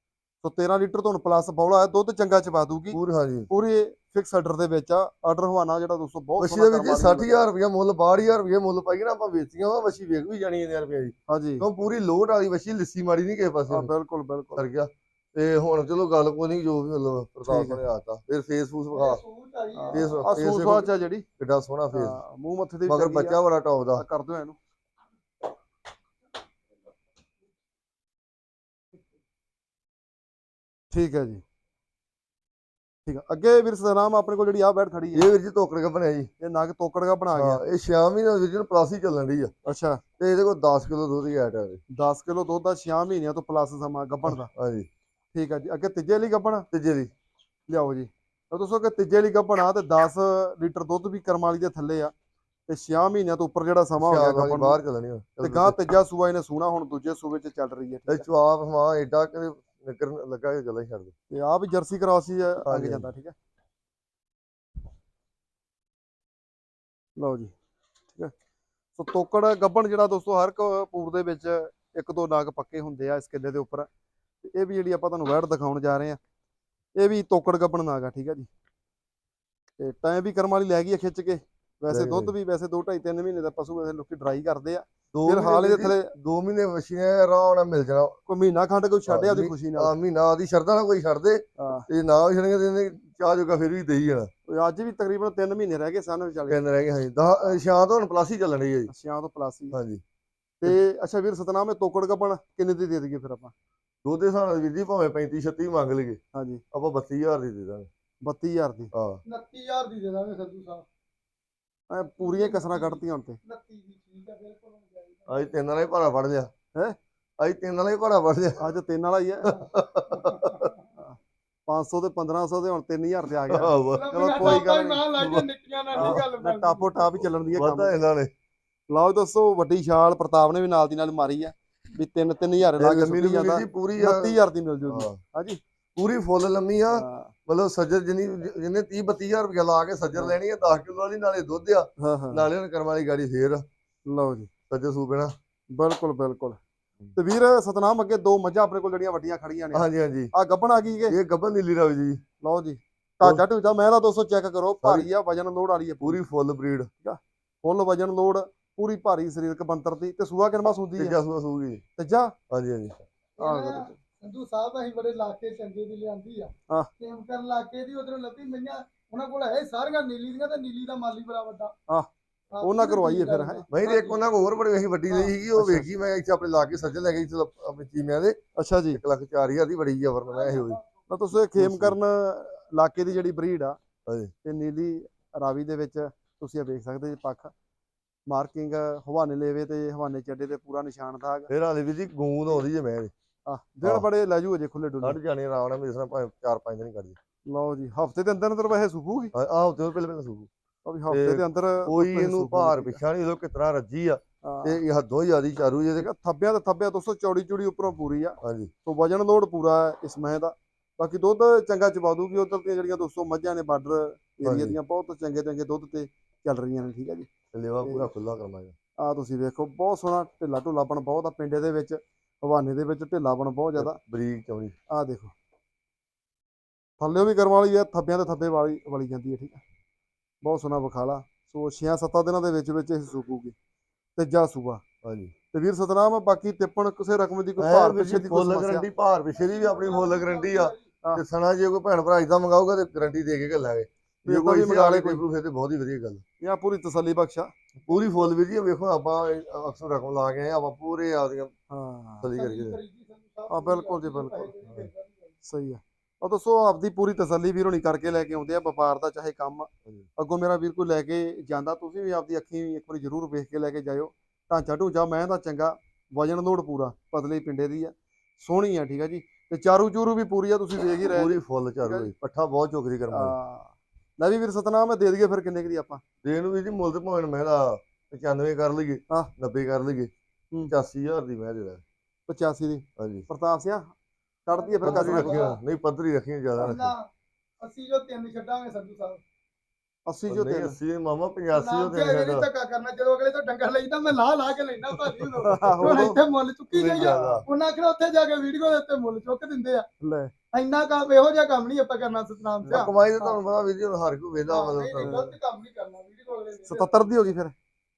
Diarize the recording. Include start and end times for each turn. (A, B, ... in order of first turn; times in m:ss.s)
0:00.4-0:03.0 A
0:02.9-0:03.5 B
0:03.5-0:07.4 A
0:06.4-0:13.9 B
0:11.3-0:11.6 A
0:13.7-0:14.6 A
0:14.5-0:19.2 B
0:17.4-0:17.8 A
0:18.9-0:20.4 C
0:19.8-0:21.2 A
0:19.9-0:22.2 B
0:21.9-0:23.4 A
0:22.9-0:24.0 B
0:24.0-0:24.6 A
0:30.9-0:31.4 A
0:33.0-0:35.2 A
0:35.1-0:36.3 B
0:36.4-0:37.6 A
0:37.3-0:39.5 B
0:39.6-0:40.0 A
0:40.2-0:41.8 B
0:41.9-0:44.5 A
0:44.2-0:44.9 B
0:45.3-0:46.7 A
0:46.7-0:47.1 B
0:47.7-0:52.1 A
0:52.7-0:54.8 A
0:54.0-0:55.8 B
0:55.4-0:58.2 A
0:58.1-1:01.1 B
1:01.3-1:03.3 A
1:02.6-1:03.1 B
1:07.2-1:07.5 A
1:09.0-1:13.9 A
1:14.4-1:16.2 A
1:17.0-1:18.5 A
1:19.8-1:26.1 A
1:21.9-1:22.3 B
1:25.1-1:28.2 B
1:28.3-1:29.9 A
1:29.1-1:34.3 B
1:31.6-1:31.9 A
1:34.5-1:36.6 A
1:36.5-1:38.9 B
1:38.9-1:39.8 A
1:39.7-1:40.0 B
1:40.6-1:43.5 A
1:44.0-1:46.2 B
1:46.3-1:46.6 A
1:46.7-1:47.9 B
1:48.2-1:48.9 A
1:48.9-1:49.2 B
1:49.2-1:50.8 C
1:51.9-1:53.4 A
1:52.2-1:55.4 C
1:55.3-1:56.5 B
1:57.4-1:58.7 B
1:58.6-1:59.6 A
1:59.5-2:00.6 B
2:00.1-2:00.8 C
2:01.0-2:04.8 A
2:03.5-2:06.2 B
2:03.9-2:07.0 C
2:05.9-2:07.9 A
2:07.2-2:08.3 B
2:08.9-2:15.6 A
2:12.8-2:15.2 B
2:16.0-2:23.6 B
2:16.9-2:17.3 A
2:22.0-2:22.5 A
2:24.1-2:24.5 A
2:24.7-2:25.3 B
2:25.7-2:26.6 A
2:27.1-2:31.1 A
2:29.7-2:30.3 B
2:31.1-2:32.2 B
2:32.4-2:36.2 A
2:34.8-2:35.1 B
2:36.0-2:36.9 B
2:37.0-2:41.2 A
2:41.0-2:41.8 B
2:42.0-2:42.3 A
2:42.5-2:43.0 B
2:43.4-2:51.7 C
2:43.4-2:44.0 A
2:52.5-2:54.3 C
2:52.6-2:53.6 A
2:53.7-2:58.4 B
2:55.5-2:55.9 A
2:58.6-2:59.0 A
2:58.9-3:00.8 B
3:00.3-3:00.8 C
3:01.1-3:03.8 A
3:01.5-3:02.0 B
3:04.0-3:04.3 B
3:04.4-3:07.5 A
3:08.3-3:11.5 A
3:11.5-3:13.1 B
3:13.5-3:15.2 A
3:15.0-3:17.2 B
3:17.4-3:19.3 A
3:19.3-3:20.5 B
3:20.8-3:23.0 A
3:21.1-3:26.1 B
3:24.4-3:24.8 A
3:26.0-3:37.3 A
3:28.4-3:28.7 B
3:34.4-3:34.8 B
3:37.5-3:38.7 B
3:37.8-3:38.1 A
3:39.0-3:44.0 A
3:43.8-3:44.7 B
3:44.9-3:45.3 A
3:47.0-3:49.6 A
3:50.4-3:53.5 A
3:54.2-3:54.8 A
3:55.0-3:55.3 B
3:55.5-3:58.8 A
3:57.6-4:06.2 B
3:59.3-4:00.9 C
4:04.2-4:05.2 A
4:06.4-4:07.5 A
4:07.9-4:11.5 B
4:11.7-4:12.3 A
4:12.2-4:12.8 B
4:12.3-4:15.3 C
4:13.5-4:14.5 A
4:15.4-4:32.1 A
4:31.1-4:33.3 B
4:33.1-4:36.0 A
4:36.2-4:40.1 B
4:40.7-4:41.8 B
4:42.3-4:43.9 A
4:43.0-4:43.3 B
4:44.4-4:45.5 A
4:44.5-4:45.6 C
4:44.8-4:46.9 B
4:46.6-4:47.1 C
4:47.6-4:49.2 C
4:50.1-4:50.8 A
4:50.3-4:52.5 B
4:51.5-4:59.8 C
4:55.4-4:56.2 A
4:55.6-4:57.4 B
4:56.9-4:57.4 A
5:00.0-5:00.3 A
5:00.5-5:03.4 C
5:02.7-5:05.2 B
5:04.5-5:07.0 C
5:05.0-5:05.3 A
5:06.7-5:07.5 A